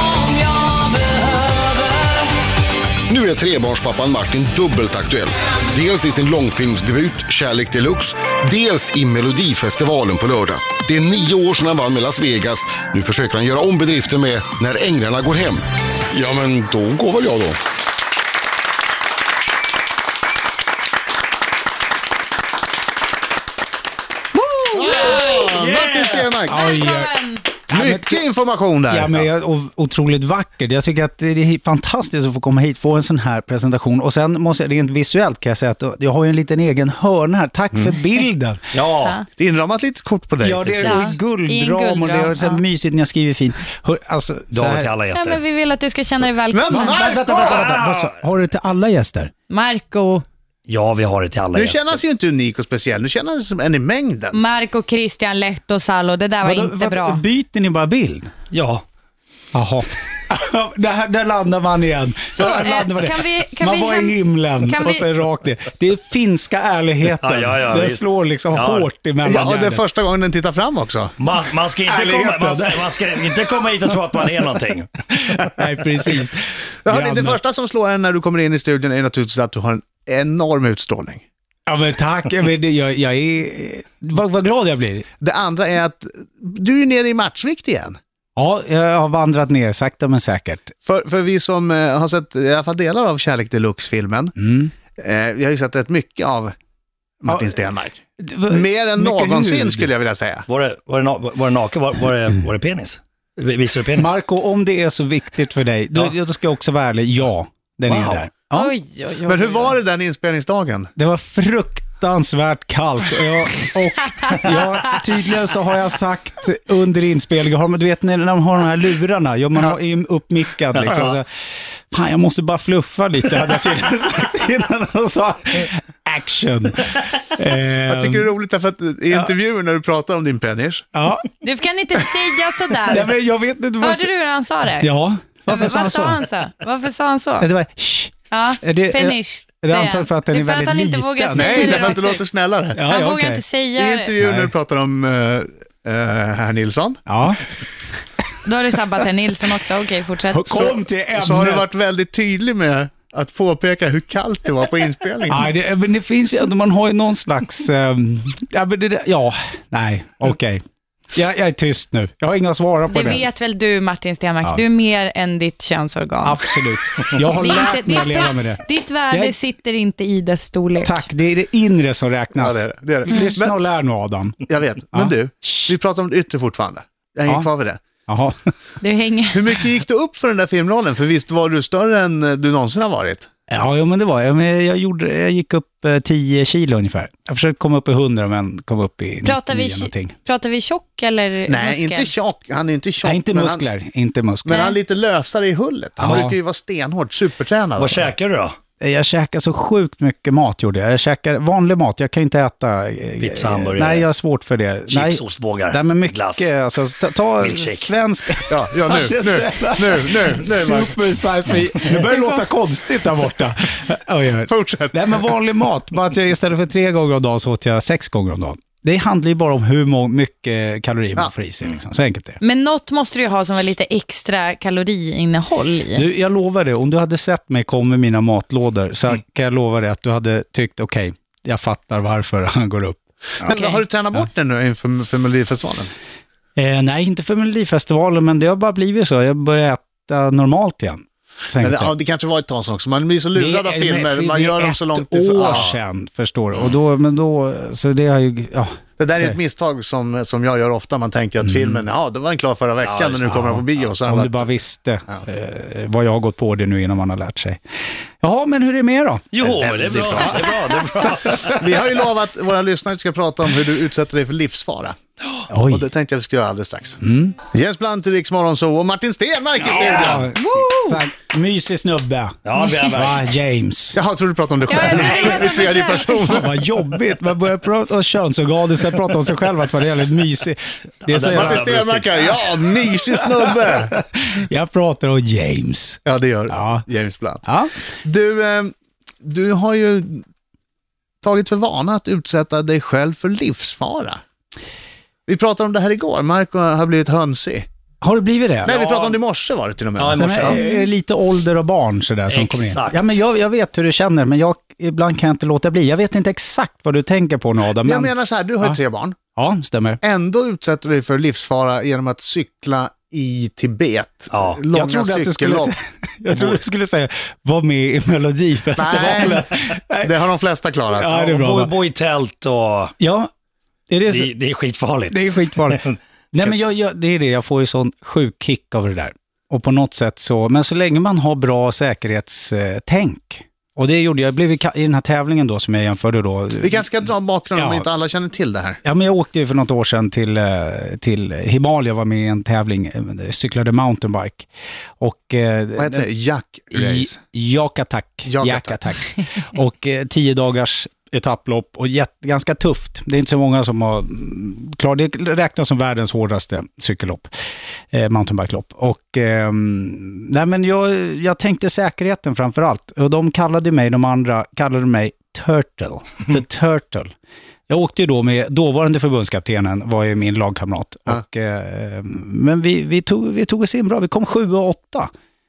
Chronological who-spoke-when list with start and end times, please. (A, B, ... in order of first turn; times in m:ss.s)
0:03.1-0:17.6 A
0:24.3-0:25.5 B
0:24.8-0:26.6 C
0:25.5-0:26.3 D
0:26.5-0:27.1 E
0:26.5-0:27.5 B
0:27.7-0:28.3 E
0:27.7-0:29.3 C
0:28.9-0:38.6 E
0:38.7-0:39.2 D
0:39.4-0:40.8 C
0:40.4-0:44.9 E
0:40.8-0:41.1 D
0:40.8-0:42.6 B
0:44.5-0:45.4 D
0:45.1-0:47.2 B
0:46.5-0:47.7 C
0:46.7-0:49.3 E
0:47.2-0:48.2 D
0:49.5-0:50.2 B
0:50.7-0:52.0 D
0:51.5-0:54.4 C
0:54.3-0:57.2 B
0:56.4-0:58.3 E
0:58.5-0:58.8 D
0:59.5-1:09.8 E
1:02.3-1:05.1 B
1:07.2-1:08.9 D
1:09.2-1:11.1 C
1:11.2-1:14.9 D
1:11.8-1:13.0 E
1:15.1-1:17.4 E
1:16.8-1:21.2 C
1:21.7-1:25.1 E
1:25.2-1:28.0 C
1:28.4-1:30.7 E
1:30.8-1:34.4 C
1:34.4-1:34.7 E
1:35.0-1:36.5 C
1:37.2-1:40.4 C
1:37.3-1:37.6 E
1:38.2-1:39.9 E
1:40.5-1:44.1 D
1:44.0-1:48.7 E
1:47.9-1:48.2 D
1:48.5-1:49.8 B
1:49.3-1:50.9 C
1:51.0-2:01.3 E
2:00.8-2:01.1 D
2:01.9-2:08.3 E
2:07.9-2:10.9 C
2:10.9-2:11.3 E
2:11.4-2:13.2 B
2:12.8-2:14.1 E
2:13.8-2:14.9 B
2:14.8-2:16.2 E
2:15.5-2:17.5 B
2:17.4-2:22.0 E
2:18.3-2:22.2 B
2:21.3-2:22.8 C
2:22.8-2:23.4 E
2:22.8-2:24.1 B
2:23.8-2:27.0 C
2:24.2-2:24.5 E
2:27.1-2:27.4 E
2:28.4-2:30.4 B
2:30.3-2:31.7 E
2:30.5-2:35.5 C
2:35.3-2:40.6 E
2:41.2-2:43.3 E
2:42.9-2:46.5 B
2:46.2-2:49.4 E
2:47.2-2:51.1 B
2:50.8-2:55.8 E
2:52.4-2:53.6 C
2:54.4-2:57.8 C
2:58.1-2:58.5 E
2:58.8-2:59.5 B
2:59.3-3:03.3 C
3:03.5-3:10.2 E
3:09.2-3:12.1 B
3:11.5-3:13.6 C
3:13.0-3:14.6 E
3:14.4-3:18.1 C
3:14.5-3:14.8 B
3:16.0-3:16.4 E
3:16.0-3:16.3 D
3:17.8-3:18.5 D
3:18.8-3:42.4 E
3:23.2-3:24.1 D
3:24.9-3:26.5 D
3:27.4-3:27.9 D
3:28.5-3:30.9 C
3:34.5-3:35.1 C
3:42.4-3:46.1 B
3:45.9-3:53.0 E
3:53.4-3:55.9 C
3:53.5-3:53.8 B
3:56.6-4:01.9 E
4:01.6-4:05.8 C
4:03.4-4:09.4 E
4:09.0-4:14.5 C
4:12.8-4:13.6 D
4:14.0-4:17.6 E
4:18.2-4:19.4 E
4:19.3-4:21.8 D
4:19.4-4:20.4 C
4:20.1-4:20.4 E
4:21.3-4:25.0 C
4:25.5-4:25.9 E
4:25.7-4:30.3 C
4:27.0-4:27.4 E
4:29.6-4:34.0 E
4:29.7-4:30.2 D
4:30.4-4:31.0 B
4:32.4-4:33.2 D
4:33.9-4:36.5 C
4:34.7-4:36.2 B
4:34.9-4:35.3 E
4:36.2-4:41.7 E
4:41.0-4:42.4 D
4:41.2-4:43.9 C
4:43.1-4:46.9 E
4:46.1-4:47.5 C
4:47.4-4:47.7 E
4:48.0-4:50.2 C
4:51.2-4:54.2 C
4:55.3-4:57.7 C
4:58.0-4:58.7 E
4:58.6-5:00.6 C
4:58.6-4:59.2 D
5:00.0-5:00.6 D
5:00.2-5:08.8 E
5:00.6-5:00.9 B
5:02.3-5:03.2 D
5:07.8-5:09.2 C
5:09.4-5:10.0 E
5:10.0-5:15.7 C
5:14.3-5:14.6 D
5:14.7-5:20.2 E
5:18.8-5:21.2 C
5:21.0-5:21.7 E
5:21.2-5:22.9 D
5:23.0-5:23.3 E
5:23.9-5:24.3 E
5:24.1-5:26.5 D
5:25.1-5:37.0 E
5:36.6-5:38.8 C
5:37.6-5:37.9 E
5:38.8-5:44.5 E
5:45.0-5:46.0 E
5:45.8-5:47.2 C
5:46.7-5:57.3 E
5:48.3-5:48.8 C
5:57.9-6:07.1 E
6:07.7-6:15.1 E